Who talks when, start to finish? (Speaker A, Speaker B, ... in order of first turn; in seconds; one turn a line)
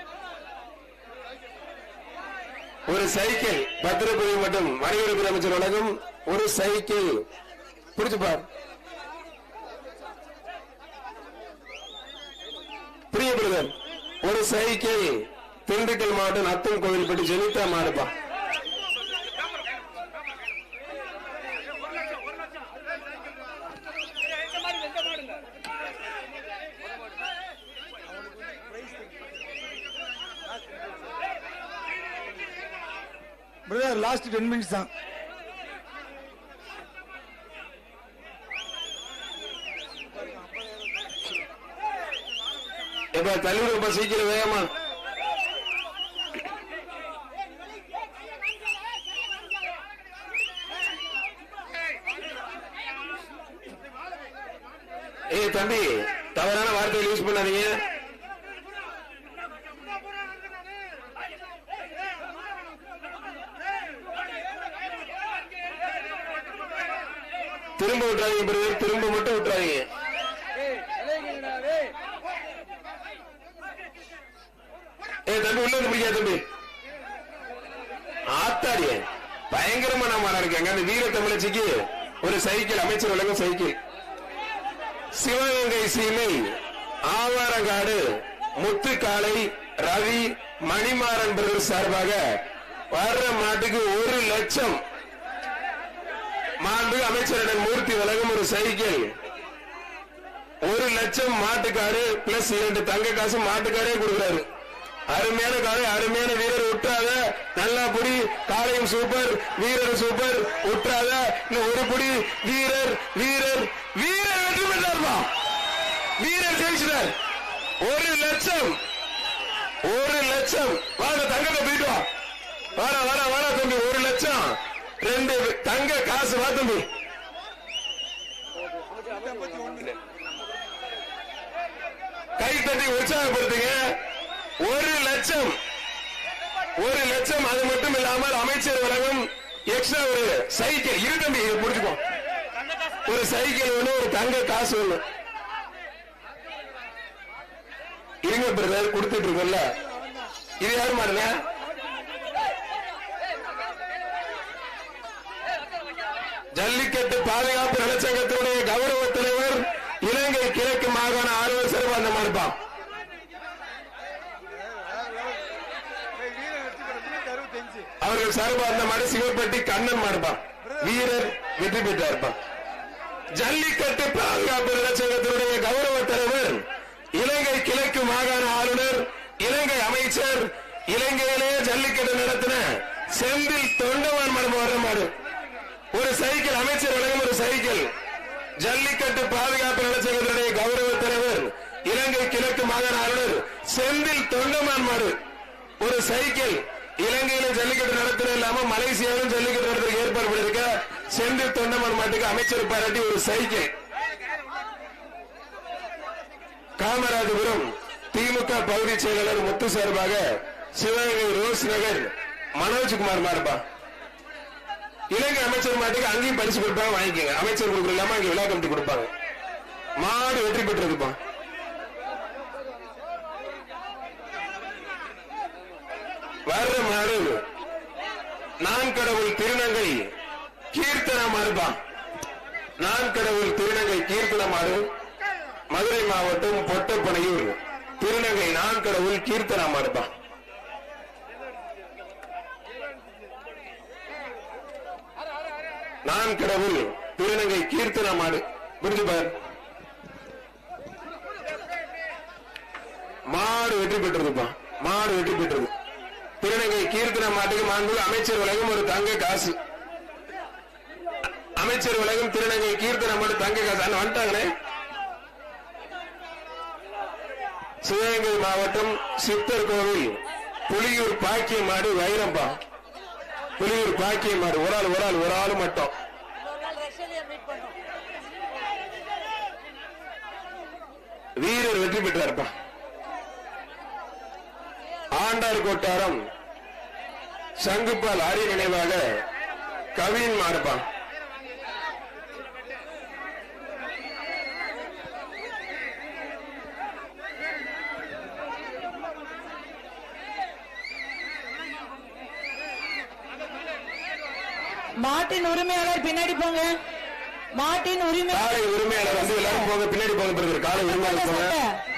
Speaker A: 2.9-7.2
Speaker A: 8.0-8.5
Speaker A: 13.1-18.1
Speaker B: 33.7-34.9
Speaker A: 43.1-44.7
Speaker A: 55.3-57.8
Speaker A: 67.8-69.9
Speaker A: 75.3-76.4
Speaker A: 78.3-83.8
Speaker A: 85.2-92.2
Speaker A: 92.9-94.8
Speaker A: 96.6-99.1
Speaker A: 100.7-104.5
Speaker A: 105.1-115.3
Speaker A: 116.2-117.1
Speaker A: 117.8-118.8
Speaker A: 119.8-122.1
Speaker A: 122.8-126.9
Speaker B: 129.3-129.8
Speaker A: 132.4-133.9
Speaker A: 134.6-135.5
Speaker A: 136.8-142.0
Speaker A: 143.1-145.0
Speaker A: 148.2-149.7
Speaker A: 150.6-151.3
Speaker A: 156.6-162.6
Speaker B: 166.2-167.9
Speaker A: 168.0-172.3
Speaker A: 173.4-176.6
Speaker A: 177.2-185.1
Speaker A: 185.9-187.9
Speaker A: 188.6-195.2
Speaker A: 195.8-203.7
Speaker A: 206.8-213.6
Speaker A: 215.1-219.1
Speaker A: 220.0-221.2
Speaker A: 226.5-227.4
Speaker A: 228.6-230.1
Speaker A: 230.7-231.8
Speaker A: 232.8-234.9
Speaker A: 235.7-240.1
Speaker A: 246.1-249.3
Speaker A: 253.3-255.7
Speaker A: 256.4-259.6
Speaker A: 261.6-264.5
Speaker A: 267.9-272.6
Speaker A: 273.6-275.9
Speaker C: 277.1-277.5
Speaker A: 281.4-282.5
Speaker A: 285.1-286.2
Speaker A: 287.6-289.2
Speaker A: 289.9-290.9
Speaker C: 305.0-306.7
Speaker C: 307.6-309.7
Speaker A: 308.3-311.6
Speaker C: 310.9-311.8